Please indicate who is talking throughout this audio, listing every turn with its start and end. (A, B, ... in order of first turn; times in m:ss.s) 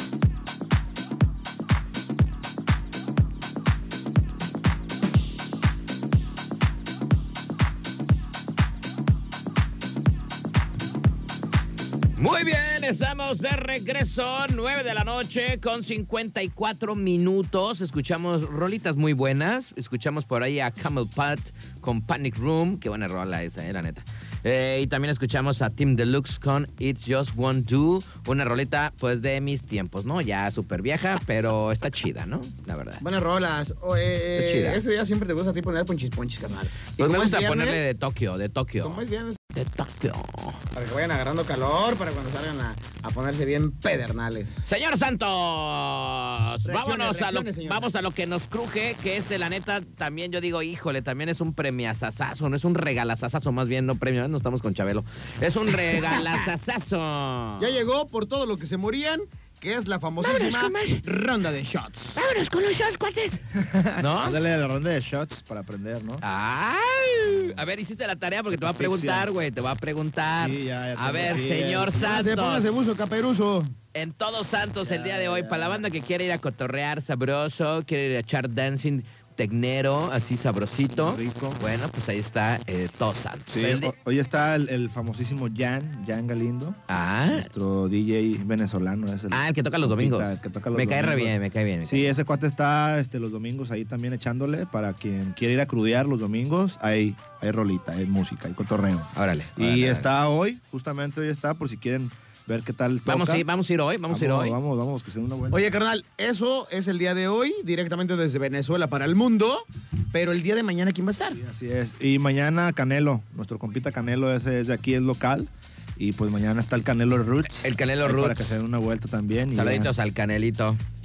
0:12.2-0:33.0 A
0:33.0-0:37.8 B
0:34.4-0:34.8 A
0:37.0-0:39.0 A
0:38.8-0:39.4 B
0:39.5-0:40.6 A
0:40.7-0:44.6 B
0:44.6-0:57.8 A
0:46.6-0:47.9 B
0:57.6-1:02.2 B
1:00.2-1:01.0 A
1:02.1-1:03.4 A
1:03.5-1:06.2 C
1:04.0-1:04.4 A
1:06.2-1:12.6 A
1:08.5-1:09.3 C
1:10.4-1:12.1 C
1:12.0-1:13.7 B
1:13.9-1:23.9 A
1:14.8-1:15.8 C
1:21.0-1:21.6 C
1:23.5-1:26.8 C
1:26.9-1:27.5 A
1:27.3-1:43.4 C
1:29.3-1:32.2 A
1:39.1-1:40.1 A
1:43.0-1:44.6 A
1:44.1-1:45.7 C
1:45.5-1:51.4 B
1:51.3-1:59.9 C
1:57.5-1:58.5 A
1:59.5-2:00.8 A